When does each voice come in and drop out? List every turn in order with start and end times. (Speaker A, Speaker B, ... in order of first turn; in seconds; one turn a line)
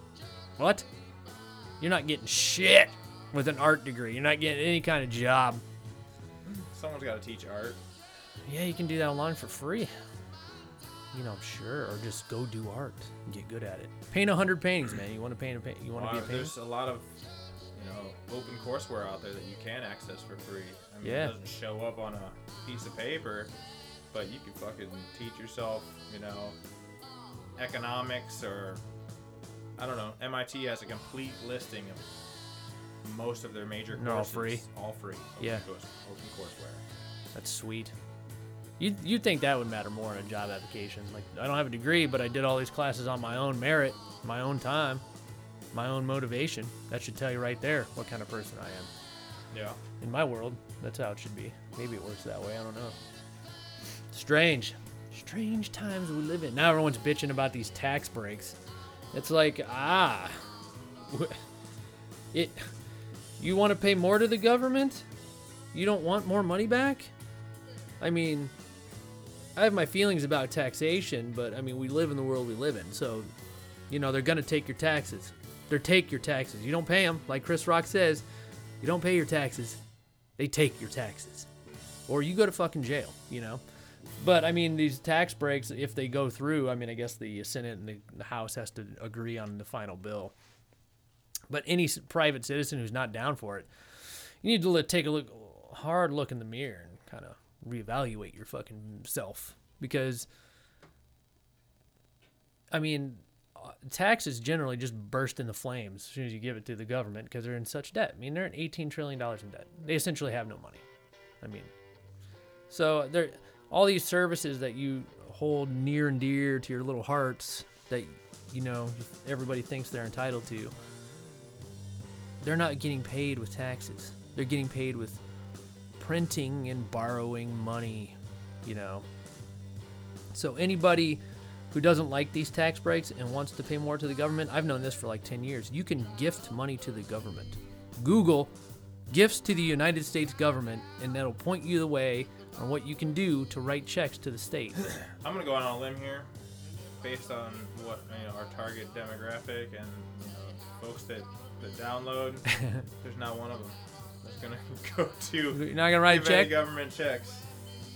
Speaker A: 0.6-0.9
Speaker A: 1.8-5.6
Speaker B: 6.4-7.8
Speaker A: 8.5-9.9
Speaker A: 11.1-16.6
Speaker B: 15.9-17.1
Speaker B: 17.8-23.5
Speaker A: 21.0-21.4
Speaker B: 24.1-26.6
Speaker B: 27.6-28.8
Speaker B: 29.8-32.1
Speaker B: 33.0-36.8
Speaker A: 33.9-34.6
Speaker A: 35.4-35.6
Speaker A: 37.4-37.9
Speaker A: 38.8-45.0
Speaker A: 45.7-48.9
Speaker B: 49.5-49.8
Speaker A: 50.0-53.0
Speaker A: 54.1-58.6
Speaker A: 59.1-60.5
Speaker A: 61.1-61.4
Speaker A: 62.3-62.7
Speaker A: 63.4-65.1
Speaker A: 65.7-67.1
Speaker A: 68.0-68.5
Speaker A: 69.6-73.3
Speaker A: 73.9-78.2
Speaker A: 78.8-79.8
Speaker A: 80.4-81.5
Speaker A: 82.1-83.6
Speaker A: 84.2-90.3
Speaker A: 91.5-100.3
Speaker A: 102.7-110.8
Speaker A: 111.4-111.7
Speaker A: 112.7-120.7
Speaker A: 122.4-125.2
Speaker A: 126.0-129.1
Speaker A: 130.3-138.5
Speaker A: 139.1-144.8
Speaker B: 144.8-146.3
Speaker B: 147.0-157.5
Speaker A: 155.5-156.6